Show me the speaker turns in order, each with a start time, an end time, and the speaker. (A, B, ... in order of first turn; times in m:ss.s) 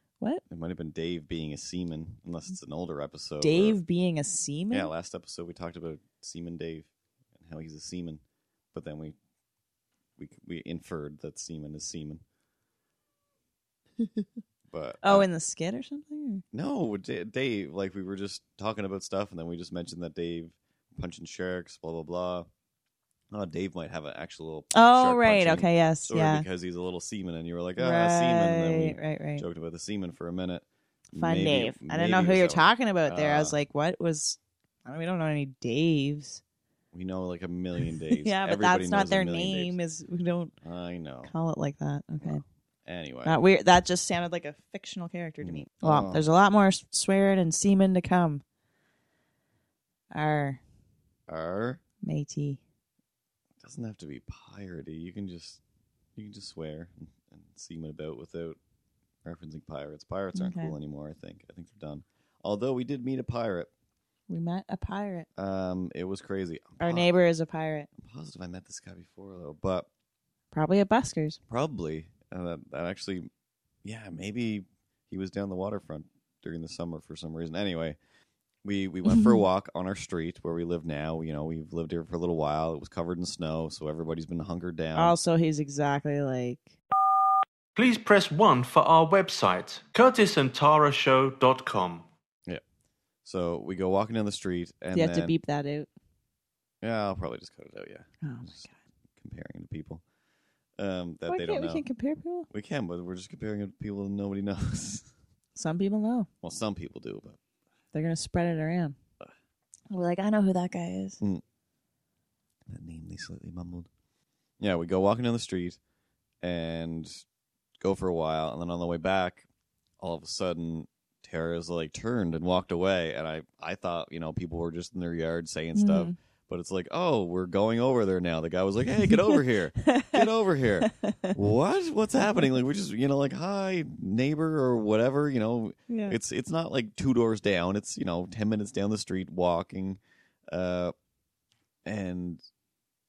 0:00.5-0:03.8 A
0:03.4-0:04.9 B
0:04.7-0:08.2 A
0:08.7-0:09.2 A
0:10.2-0:12.2 A
0:14.7-0:15.3 A
0:15.0-0:16.4 B
0:16.5-0:22.5 A
0:23.3-0:33.6 A
0:24.7-0:26.5 B
0:27.8-0:29.4 B
0:31.2-0:36.4 B
0:36.9-0:39.8 A
0:38.1-0:40.5 B
0:40.6-0:41.3 A
0:41.2-0:42.4 B
0:42.2-0:43.4 A
0:43.2-0:48.4 B
0:45.4-0:46.2 A
0:50.1-0:50.6 B
0:51.3-0:51.8 A
0:52.0-0:52.6 B
0:53.6-0:55.6 A
0:56.2-0:58.6 A
0:59.2-1:03.7 A
1:00.3-1:00.8 B
1:04.3-1:05.3 B
1:05.4-1:07.1 A
1:06.8-1:07.9 B
1:08.0-1:09.9 A
1:10.5-1:11.4 B
1:11.5-1:13.3 A
1:13.8-1:18.0 A
1:18.6-1:25.2 A
1:19.1-1:19.4 B
1:25.0-1:26.7 B
1:27.8-1:32.0 C
1:33.2-1:35.4 A
1:34.9-1:35.9 B
1:36.8-1:40.0 A
1:38.2-1:38.8 B
1:40.8-1:41.8 A
1:41.3-1:42.5 B
1:42.5-1:45.1 A
1:45.6-1:46.3 B
1:46.4-1:47.4 A
1:47.9-1:49.0 B
1:49.9-1:51.2 B
1:52.7-1:53.9 A
1:54.6-1:55.8 A
1:56.4-1:57.2 A
1:57.8-1:59.4 A
2:00.0-2:20.9 A
2:05.8-2:06.2 B
2:09.1-2:10.3 B
2:10.8-2:11.4 B
2:15.9-2:16.2 B
2:21.8-2:22.4 A